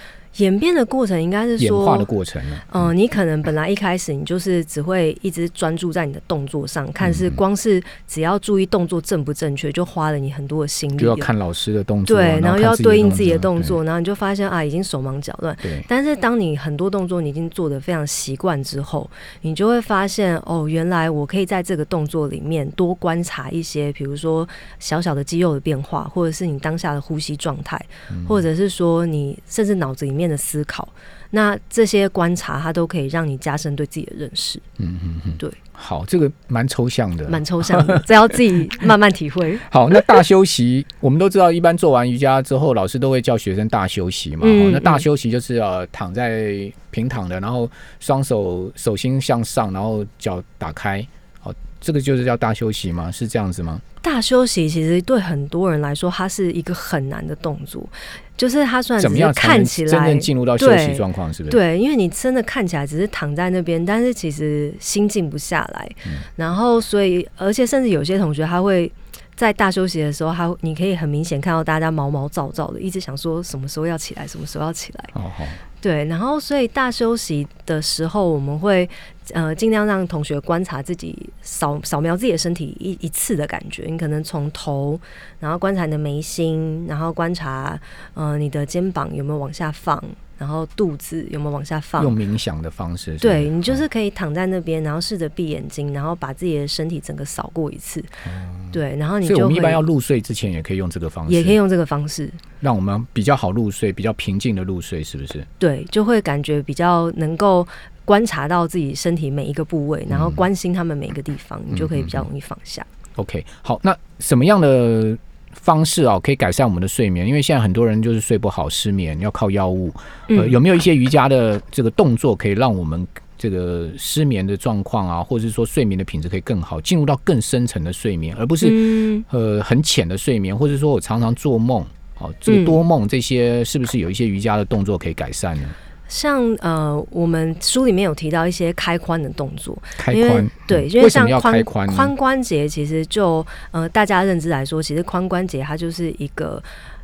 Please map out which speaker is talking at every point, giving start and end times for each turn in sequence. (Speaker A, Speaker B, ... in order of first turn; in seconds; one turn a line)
Speaker A: 0.4-2.1
Speaker B: 1.6-2.8
Speaker A: 2.7-11.3
Speaker B: 7.0-7.4
Speaker B: 11.0-13.8
Speaker A: 12.1-34.6
Speaker B: 15.6-15.9
Speaker B: 28.1-28.4
Speaker B: 34.8-38.1
Speaker A: 37.3-39.6
Speaker B: 39.7-53.8
Speaker A: 44.4-45.0
Speaker A: 54.0-75.1
Speaker B: 59.0-61.6
Speaker B: 75.1-75.6
Speaker A: 75.8-92.2
Speaker B: 92.0-93.8
Speaker A: 93.2-98.1
Speaker B: 98.2-101.6
Speaker A: 98.7-99.8
Speaker A: 101.3-102.4
Speaker B: 102.6-105.5
Speaker A: 105.6-112.9
Speaker B: 110.1-110.4
Speaker B: 111.7-112.2
Speaker B: 113.2-135.8
Speaker A: 120.3-120.6
Speaker A: 128.6-129.2
Speaker A: 132.5-132.8
Speaker A: 136.1-146.7
Speaker B: 140.0-142.1